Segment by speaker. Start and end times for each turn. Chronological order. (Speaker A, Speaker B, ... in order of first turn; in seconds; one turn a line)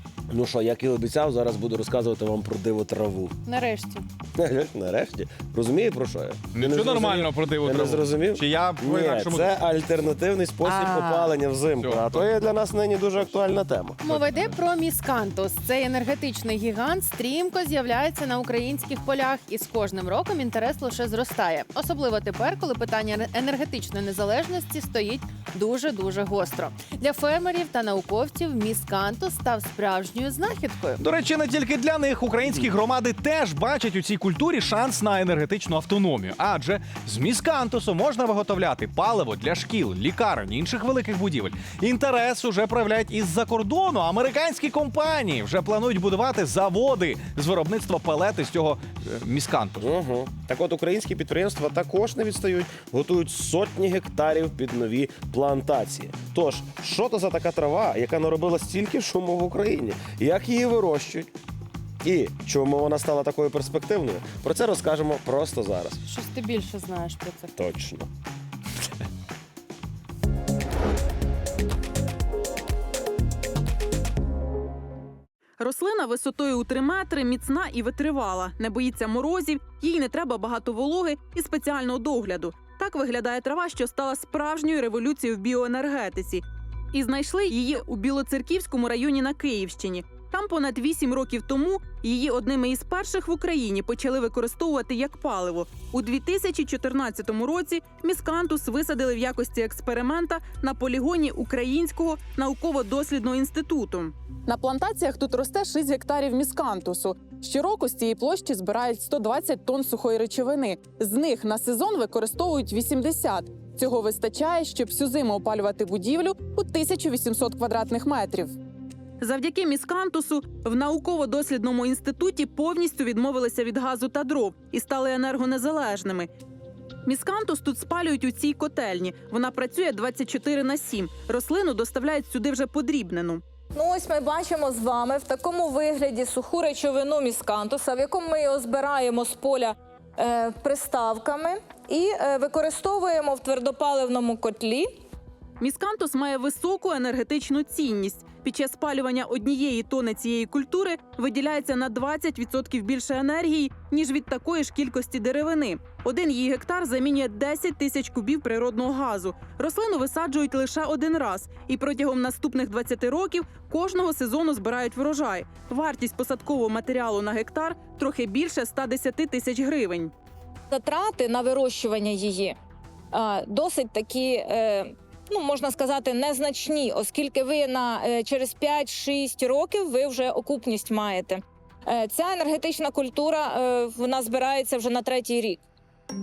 Speaker A: 0.3-3.3
Speaker B: 3.5-4.0
Speaker A: 4.4-14.1
Speaker C: 6.5-9.5
Speaker B: 10.9-11.3
Speaker C: 11.8-12.3
Speaker B: 14.0-31.0
Speaker C: 14.1-14.5
Speaker C: 31.0-49.9
Speaker A: 49.8-61.3
Speaker A: 62.0-66.0
Speaker B: 66.0-67.5
Speaker A: 67.6-68.1
Speaker D: 75.6-118.5
Speaker D: 119.2-126.3
Speaker D: 127.0-133.4
Speaker E: 133.7-144.9
Speaker D: 145.6-170.1
Speaker E: 170.7-172.6
Speaker E: 173.1-185.6